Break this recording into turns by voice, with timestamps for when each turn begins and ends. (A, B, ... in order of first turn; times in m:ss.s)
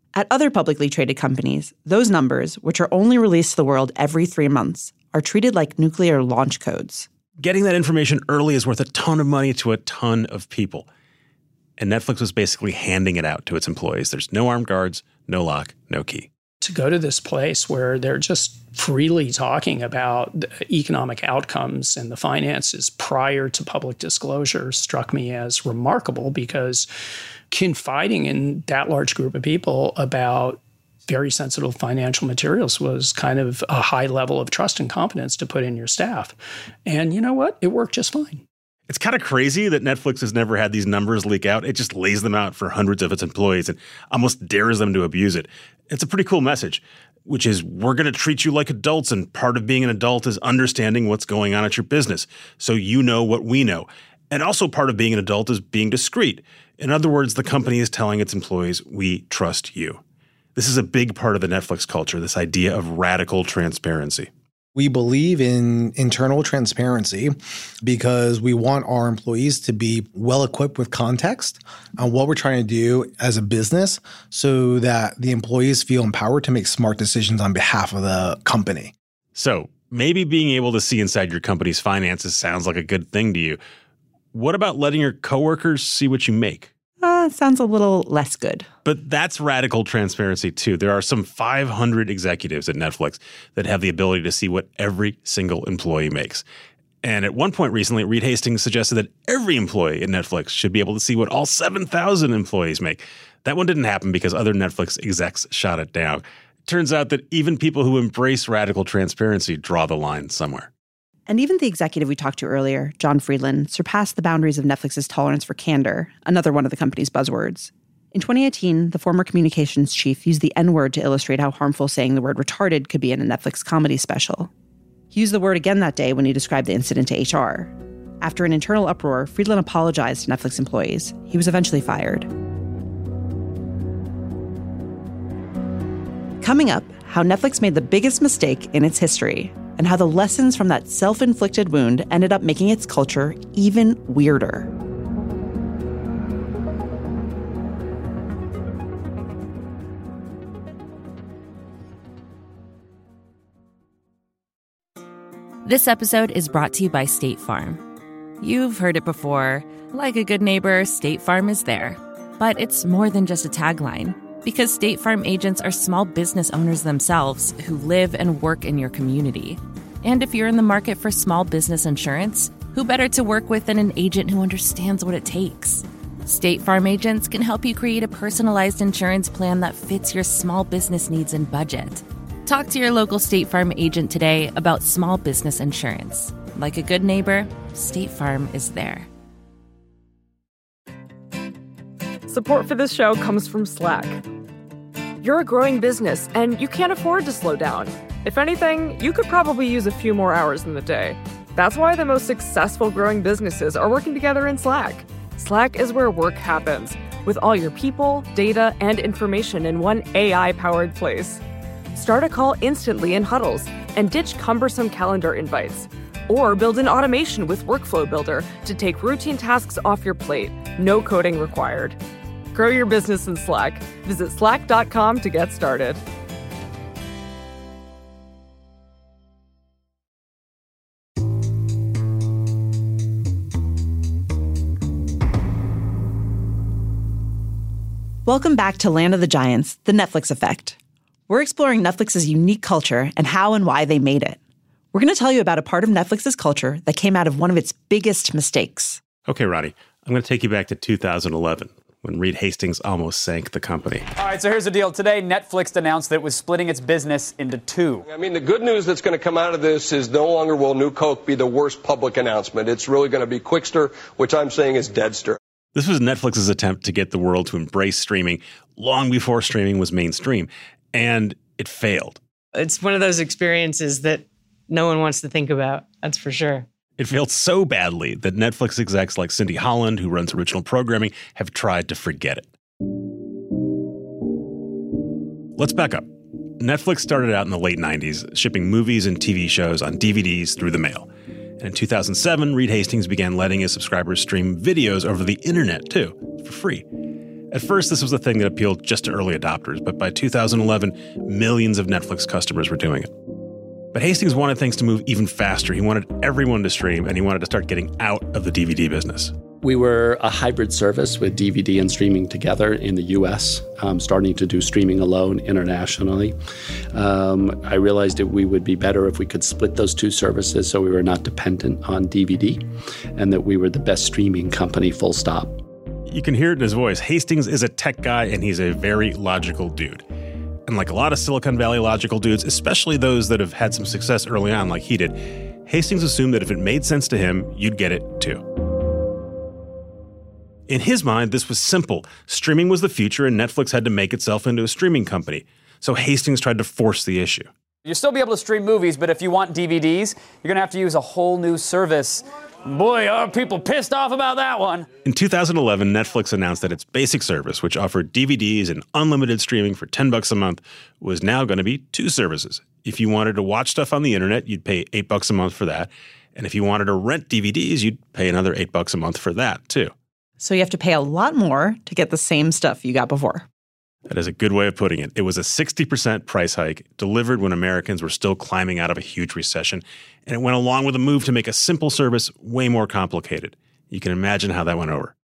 0:00.1-0:07.1 A
0:07.4-0:10.9 B
0:11.8-0:16.3 B
0:16.6-0:26.9 C
0:27.5-0:38.4 C
0:38.9-1:00.0 B
1:00.5-1:04.3 B
1:04.7-1:18.9 D
1:19.3-1:23.6 B
1:24.3-1:26.7 B
1:27.0-1:28.7 A
1:28.8-1:36.4 B
1:37.0-1:50.7 B
1:51.3-2:04.5 A
2:05.1-2:12.3 A
2:16.4-2:24.7 A
2:35.6-2:37.8 E
2:38.4-3:09.1 E
3:12.3-3:14.2 F
3:15.2-3:31.4 F
3:31.9-3:42.0 F
3:42.5-3:46.0 F
3:58.2-4:00.8 A
4:01.3-4:04.4 A
4:04.9-4:09.0 A
4:09.3-4:14.1 B
4:14.2-4:18.0 G
4:18.1-4:25.4 H
4:25.7-4:32.2 B
4:32.5-4:36.7 I
4:37.0-4:42.5 B
4:45.6-4:46.1 B
4:46.6-4:56.8 B
4:57.5-5:03.1 B
5:03.9-5:09.3 B
5:09.6-5:16.3 J
5:16.9-5:22.6 J
5:23.1-5:25.6 J
5:26.1-5:30.0 B
5:30.7-5:38.4 B
5:40.7-5:47.5 B
5:47.8-5:54.9 G
5:55.0-6:09.9 B
6:10.4-6:13.4 A
6:14.1-6:25.1 B